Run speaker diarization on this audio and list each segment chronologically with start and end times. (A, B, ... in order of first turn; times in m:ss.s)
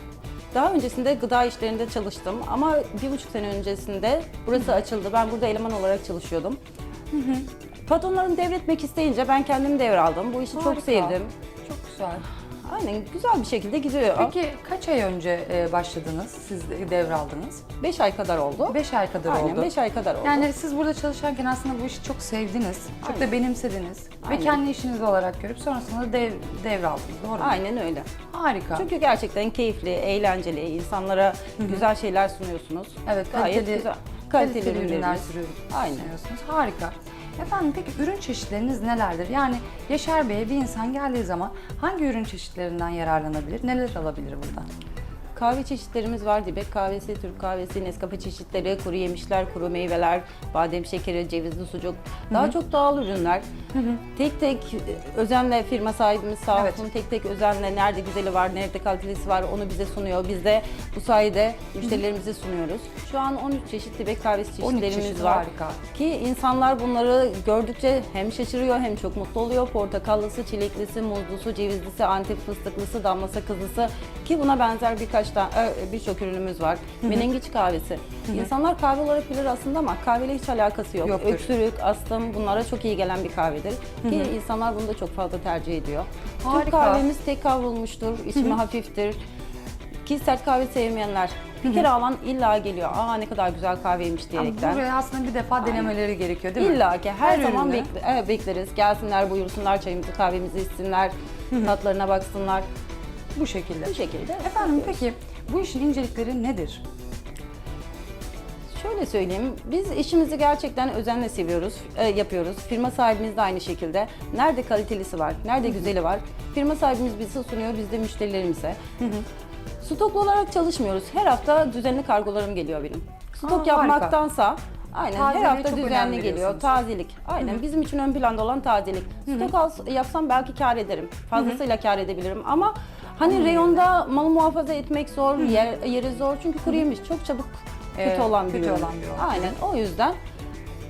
0:00.5-0:06.6 A
0:07.1-0:07.5 B
0:07.8-0:11.3 A
0:10.5-0:12.2 B
0:12.6-0:14.3 A
0:14.2-0:17.6 B
0:17.8-0:20.5 A
0:18.7-0:19.7 B
0:20.2-0:27.6 B
0:24.2-0:24.6 A
0:27.4-0:28.1 A
0:28.3-0:28.9 B
0:28.7-0:36.1 A
0:33.0-0:44.7 B
0:45.3-0:53.4 A
0:53.7-0:54.0 B
0:54.1-1:29.2 A
0:56.5-0:56.8 B
1:04.6-1:05.8 B
1:21.0-1:21.5 B
1:24.0-1:24.3 B
1:26.4-1:27.0 B
1:30.0-1:34.8 A
1:34.4-1:37.9 B
1:35.6-1:35.9 A
1:36.6-1:42.6 A
1:43.3-1:46.8 B
1:43.8-1:45.0 A
1:48.7-1:58.8 A
1:59.0-1:59.2 B
1:59.8-2:20.2 A
2:03.4-2:04.2 B
2:05.1-2:06.8 B
2:09.3-2:09.5 B
2:13.2-2:13.9 B
2:15.4-2:15.6 B
2:17.9-2:19.6 B